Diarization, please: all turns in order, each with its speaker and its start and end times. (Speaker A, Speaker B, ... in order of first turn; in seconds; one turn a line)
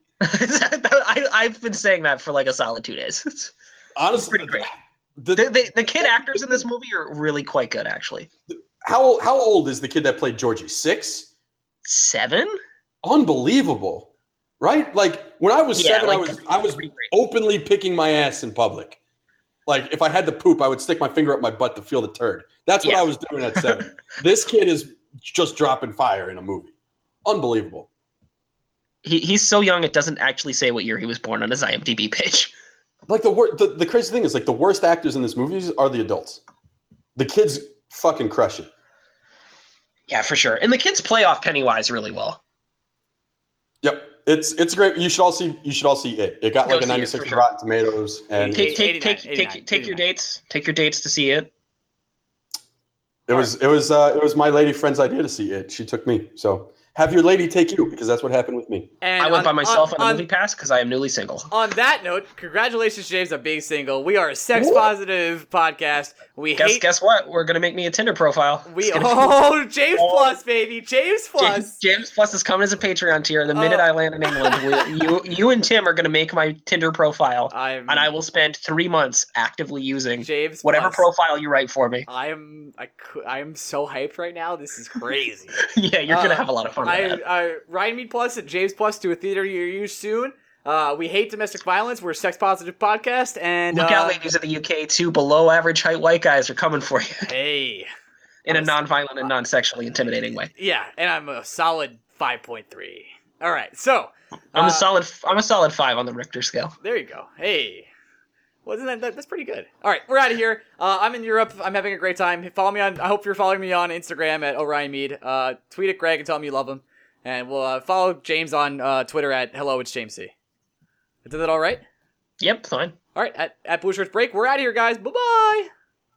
Speaker A: 0.2-3.5
Speaker B: 4.0-6.6
Speaker A: 4.1-4.7
Speaker A: 5.3-8.3
Speaker B: 8.5-11.3
Speaker A: 11.8-12.5
Speaker B: 13.0-14.1
Speaker B: 14.6-19.0
Speaker A: 15.7-17.1
Speaker B: 19.6-26.7
Speaker A: 22.8-23.7
Speaker B: 27.2-27.9
Speaker A: 29.0-32.5
Speaker B: 33.1-36.4
Speaker B: 37.1-38.7
Speaker A: 40.1-42.4
Speaker B: 43.8-48.7
Speaker A: 46.6-47.4
Speaker C: 48.4-50.0
Speaker A: 48.5-51.5
Speaker B: 53.3-58.9
Speaker C: 59.0-60.2
Speaker A: 59.2-61.5
Speaker C: 61.5-66.8
Speaker B: 64.5-64.9
Speaker A: 66.6-69.3
Speaker C: 68.7-71.8
Speaker A: 69.9-70.4
Speaker A: 71.4-82.1
Speaker C: 73.5-74.9
Speaker C: 77.5-78.1
Speaker C: 80.2-81.1
Speaker C: 82.1-94.2
Speaker A: 85.6-87.2
Speaker A: 93.7-97.3
Speaker C: 97.3-97.9
Speaker A: 98.5-100.5
Speaker C: 98.5-98.7
Speaker C: 100.5-104.8
Speaker A: 104.5-106.7
Speaker C: 106.8-107.9
Speaker C: 108.6-120.3
Speaker C: 121.2-121.8
Speaker A: 122.4-123.0
Speaker C: 123.2-125.7